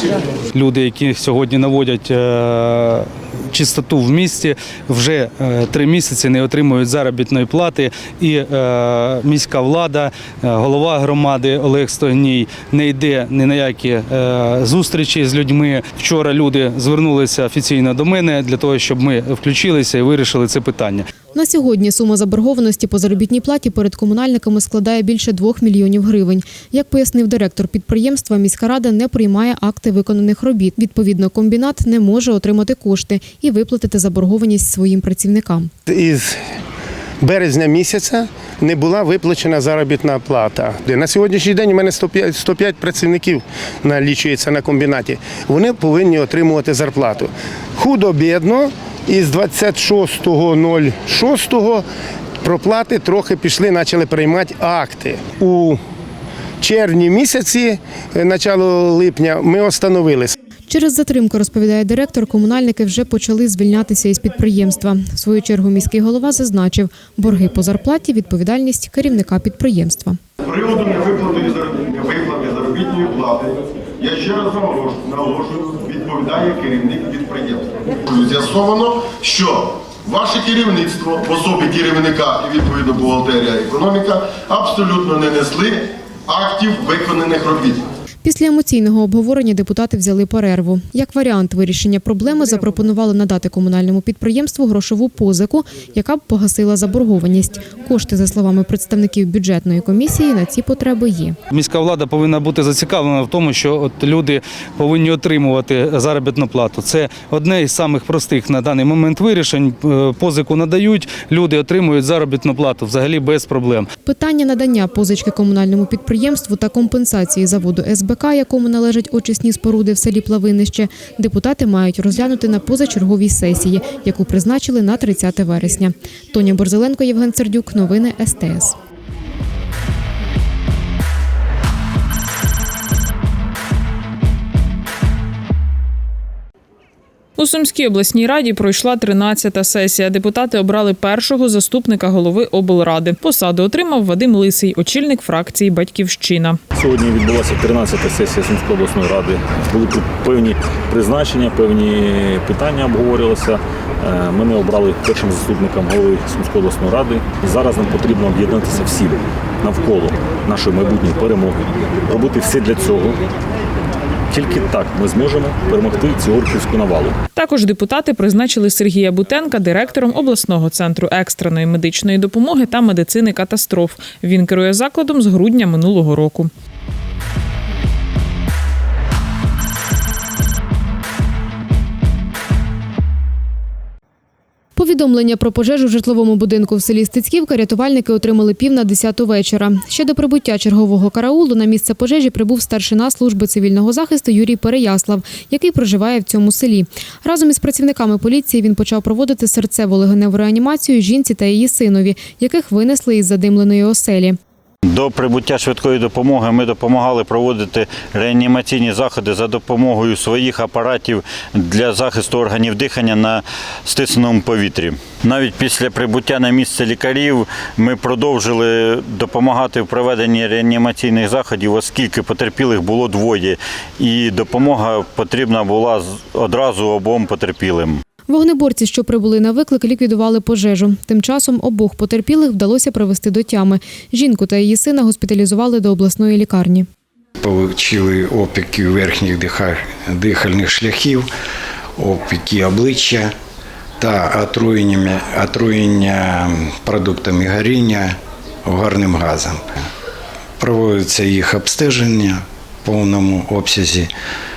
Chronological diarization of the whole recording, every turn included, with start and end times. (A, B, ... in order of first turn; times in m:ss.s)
0:00.5-0:21.1 A
0:21.3-0:35.7 B
0:35.9-0:36.3 C
0:37.2-0:51.8 C
0:52.4-0:55.8 C
0:56.6-1:00.3 C
1:00.7-1:10.2 B
1:10.4-1:27.8 D
1:28.2-1:41.4 B
1:41.5-1:53.9 A
1:54.0-2:08.8 B
2:17.4-2:26.6 E
2:26.7-2:43.2 F
2:44.3-2:47.2 F
2:47.3-2:56.5 E
3:04.8-3:24.4 B
3:24.8-3:48.0 G
3:48.3-3:56.9 B
3:57.4-4:01.3 H
4:02.0-4:03.3 H
4:04.0-4:09.7 H
4:10.6-4:14.1 H